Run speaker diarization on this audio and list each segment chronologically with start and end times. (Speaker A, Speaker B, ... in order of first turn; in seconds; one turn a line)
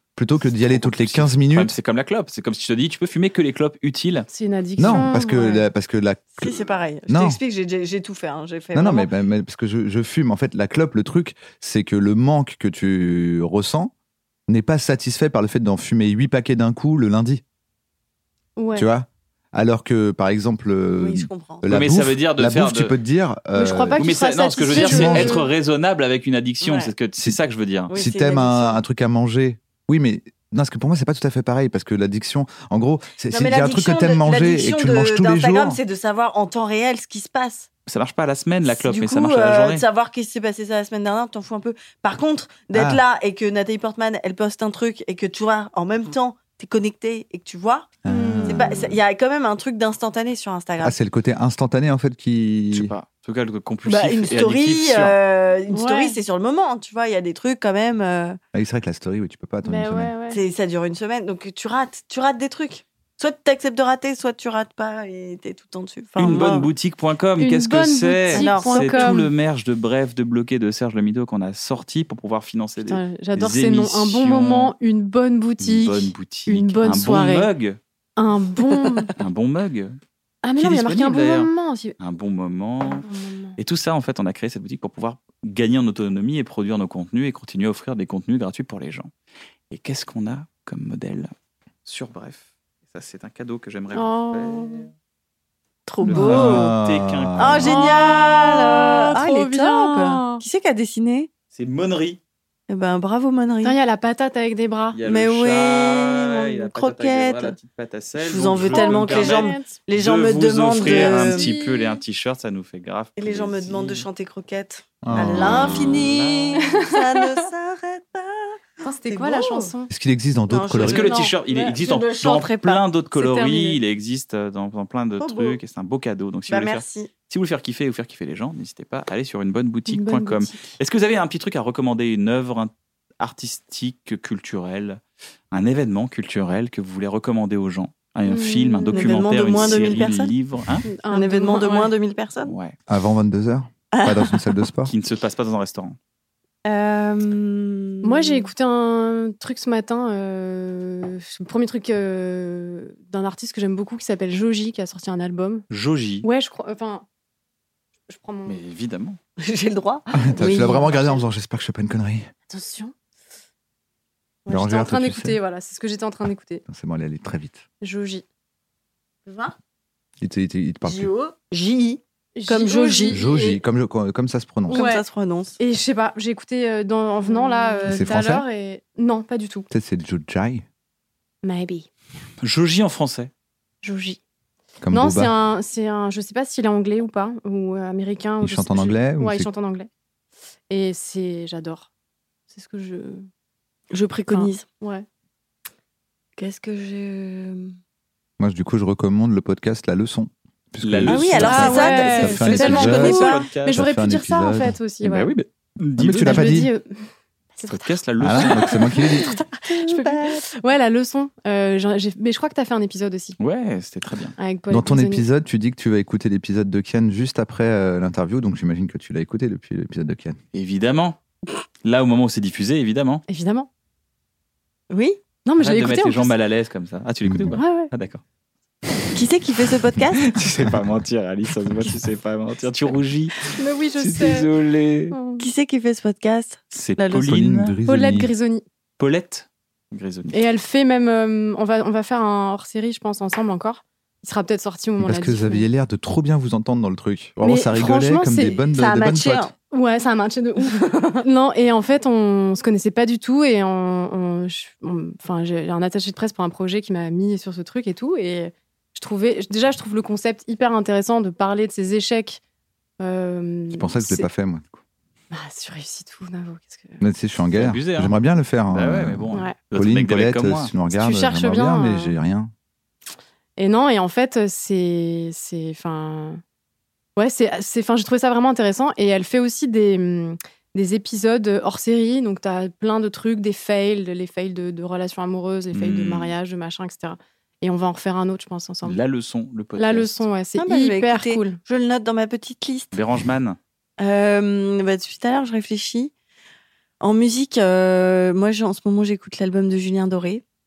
Speaker A: 0.1-1.7
Speaker B: 0.7-4.3
Speaker C: 4.3-5.6
Speaker A: 4.8-7.4
Speaker D: 4.9-5.6
Speaker D: 6.4-9.1
Speaker A: 8.7-13.9
Speaker A: 14.5-17.4
Speaker C: 18.6-18.9
Speaker A: 18.7-24.0
Speaker D: 21.0-21.7
Speaker B: 21.7-22.9
Speaker C: 23.5-25.5
Speaker B: 24.0-27.9
Speaker A: 24.7-25.4
Speaker D: 26.6-26.9
Speaker D: 27.9-28.8
Speaker A: 27.9-35.8
Speaker D: 33.3-37.7
Speaker B: 37.9-39.8
Speaker D: 38.6-51.0
Speaker A: 42.7-43.0
Speaker A: 48.0-49.0
Speaker C: 48.1-48.7
Speaker A: 50.8-52.9
Speaker B: 52.7-55.1
Speaker D: 53.9-58.4
Speaker C: 55.7-56.2
Speaker A: 58.5-60.1
Speaker C: 59.6-60.4
Speaker D: 60.3-66.7
Speaker B: 66.2-74.7
Speaker C: 67.4-69.3
Speaker D: 68.3-69.3
Speaker C: 72.8-77.5
Speaker B: 75.6-77.8
Speaker C: 78.2-79.1
Speaker B: 79.2-80.0
Speaker C: 80.4-81.9
Speaker B: 80.6-83.0
Speaker C: 83.0-83.6
Speaker B: 83.6-89.1
Speaker B: 89.7-91.3
Speaker B: 91.8-94.9
Speaker C: 93.9-94.9
Speaker D: 95.8-96.7
Speaker A: 96.0-97.8
Speaker B: 96.0-97.9
Speaker D: 97.4-101.3
Speaker C: 97.7-100.4
Speaker B: 101.5-102.2
Speaker D: 102.7-103.8
Speaker C: 103.6-105.0
Speaker B: 104.9-114.1
Speaker D: 105.0-107.5
Speaker D: 108.2-111.5
Speaker C: 108.7-109.8
Speaker C: 110.8-112.0
Speaker D: 113.2-119.7
Speaker A: 115.0-116.0
Speaker B: 115.1-116.6
Speaker C: 118.8-119.9
Speaker A: 119.9-121.2
Speaker D: 120.5-123.8
Speaker B: 120.8-135.0
Speaker D: 125.2-125.6
Speaker D: 126.5-127.1
Speaker C: 129.9-130.7
Speaker B: 135.5-140.9
Speaker C: 138.3-139.2
Speaker D: 138.9-140.3
Speaker C: 140.8-141.9
Speaker D: 141.1-142.6
Speaker B: 142.4-142.7
Speaker A: 142.9-144.9
Speaker D: 143.9-144.6
Speaker B: 144.9-146.0
Speaker D: 146.7-148.5
Speaker C: 148.0-155.6
Speaker B: 155.7-156.2
Speaker C: 156.2-157.0
Speaker C: 158.1-158.6
Speaker B: 158.4-159.2
Speaker D: 159.4-161.1
Speaker A: 160.2-162.3
Speaker C: 162.5-162.9
Speaker C: 164.4-166.6
Speaker A: 164.5-165.4
Speaker A: 166.7-167.6
Speaker C: 167.8-168.2
Speaker D: 169.2-169.5
Speaker A: 170.2-171.1
Speaker D: 170.8-173.6
Speaker C: 172.3-173.2
Speaker A: 173.1-174.8
Speaker D: 174.7-175.6
Speaker C: 174.7-175.0
Speaker C: 175.6-179.7
Speaker D: 177.2-177.8
Speaker A: 177.8-178.4
Speaker A: 179.7-180.6
Speaker C: 181.4-181.9
Speaker B: 182.4-183.3
Speaker C: 183.8-184.2
Speaker A: 184.8-185.3
Speaker C: 184.9-189.9
Speaker A: 188.4-189.5
Speaker C: 190.7-191.9
Speaker C: 192.5-193.3
Speaker D: 193.9-194.6
Speaker C: 194.3-195.0
Speaker D: 196.4-197.7
Speaker A: 198.4-204.8
Speaker B: 200.8-203.8
Speaker D: 201.1-203.4
Speaker C: 201.4-205.3
Speaker B: 205.0-206.6
Speaker A: 206.0-206.7
Speaker C: 206.2-207.9
Speaker B: 207.6-208.6
Speaker A: 208.2-209.4
Speaker D: 209.6-210.5
Speaker C: 209.7-213.4
Speaker B: 213.4-214.3
Speaker C: 214.4-215.3
Speaker A: 214.7-220.4
Speaker B: 220.5-221.2
Speaker B: 221.8-223.2
Speaker C: 223.3-223.7
Speaker D: 224.9-225.2
Speaker C: 225.4-226.3
Speaker B: 225.6-228.2
Speaker A: 227.2-227.6
Speaker C: 227.5-227.9
Speaker D: 229.1-230.4
Speaker B: 230.2-233.4
Speaker C: 233.5-234.5
Speaker B: 234.0-235.2
Speaker C: 235.1-235.5
Speaker D: 235.4-237.3
Speaker B: 236.7-237.8
Speaker A: 237.2-238.3
Speaker C: 237.9-238.6
Speaker B: 239.0-240.4
Speaker C: 240.3-245.7
Speaker A: 245.0-249.5
Speaker C: 247.4-248.6
Speaker D: 248.7-249.5
Speaker C: 249.7-262.4
Speaker C: 263.0-264.3
Speaker A: 263.7-264.8
Speaker C: 265.3-267.0
Speaker A: 267.0-272.5
Speaker B: 267.5-268.1
Speaker B: 268.7-270.7
Speaker C: 270.9-272.2
Speaker C: 273.6-276.4
Speaker C: 277.1-289.0
Speaker B: 285.7-286.3
Speaker B: 288.8-290.3
Speaker C: 289.8-291.6
Speaker D: 290.6-292.9
Speaker B: 292.9-293.6
Speaker D: 294.0-296.1
Speaker D: 297.0-300.4